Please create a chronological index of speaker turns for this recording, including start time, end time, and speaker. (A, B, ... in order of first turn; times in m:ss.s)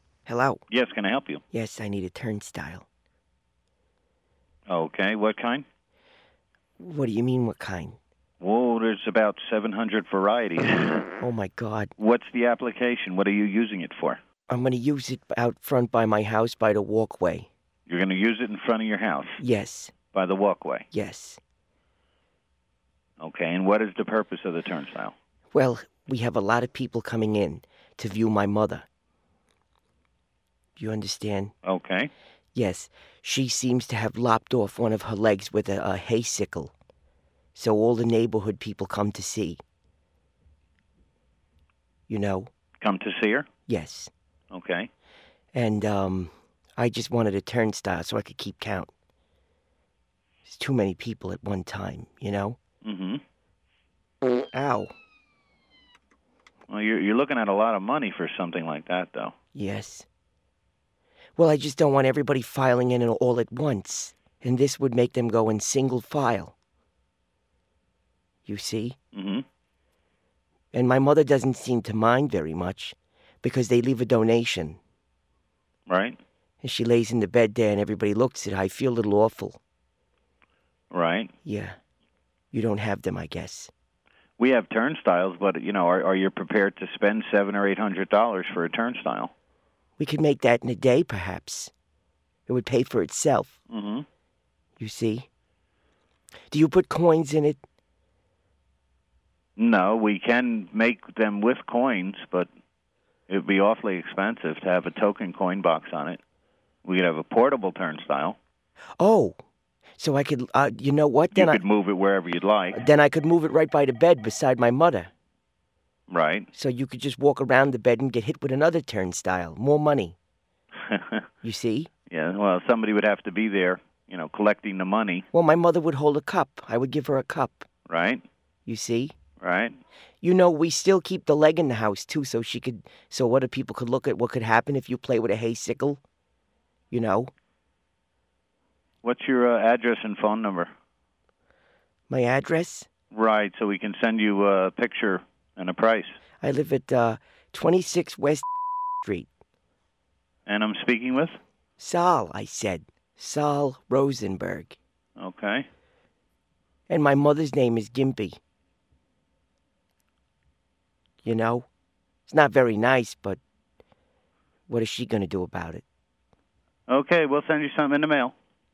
0:00.3-0:00.6 A
0:00.7-0:01.4 B
0:01.5-0:02.8 A
0:04.7-0:05.6 B
0:06.8-0:08.0 A
0:08.4-0:11.1 B
0:11.2-0:11.9 A
0:12.0-0:14.2 B
0:14.5-0:17.5 A
0:17.9-0:19.4 B
0:19.4-0:19.9 A
0:20.1-0:20.9 B
0:20.9-0:21.4 A
0:23.2-0:25.1 B
0:25.5-0:28.8 A
0:30.8-0:31.5 A
0:31.6-0:32.1 B
0:32.5-0:36.7 A
0:37.5-0:39.6 A
0:42.1-0:42.5 A
0:42.8-0:43.5 B
0:43.7-0:44.1 A
0:44.5-0:44.9 B
0:45.5-0:48.9 A
0:50.4-0:52.6 A
0:52.8-0:53.2 B
0:54.5-0:54.9 A
0:56.7-0:59.3 B
0:59.5-1:00.0 A
1:01.4-1:06.5 A
1:08.4-1:09.0 A
1:09.1-1:09.4 B
1:10.7-1:14.8 A
1:15.9-1:16.2 B
1:16.6-1:19.6 A
1:20.9-1:21.3 B
1:21.4-1:21.8 A
1:22.5-1:23.7 A
1:24.4-1:29.3 B
1:30.0-1:31.7 A
1:32.5-1:33.6 A
1:33.7-1:34.0 B
1:34.8-1:35.3 A
1:36.5-1:37.6 A
1:39.6-1:42.5 B
1:43.3-1:46.2 B
1:46.8-1:48.4 B
1:49.0-1:49.4 A
1:50.0-1:51.6 A
1:51.3-1:52.8 B
1:52.7-1:55.1 A
1:56.1-1:56.5 B
1:56.5-2:00.2 A
2:00.9-2:01.2 B
2:01.4-2:01.9 A
2:02.1-2:05.2 B
2:05.3-2:07.7 A
2:07.9-2:08.2 B
2:08.6-2:09.1 A
2:09.4-2:09.8 B
2:10.2-2:16.0 A
2:16.9-2:17.3 A
2:19.0-2:20.7 B
2:22.1-2:22.9 A
2:23.1-2:26.1 B
2:26.4-2:28.4 A
2:29.0-2:29.3 A
2:30.4-2:31.3 B
2:31.8-2:34.8 A
2:35.2-2:35.7 B
2:36.9-2:38.4 A
2:41.2-2:41.7 A
2:42.3-2:43.4 A
2:44.7-2:45.8 A
2:46.9-2:48.3 B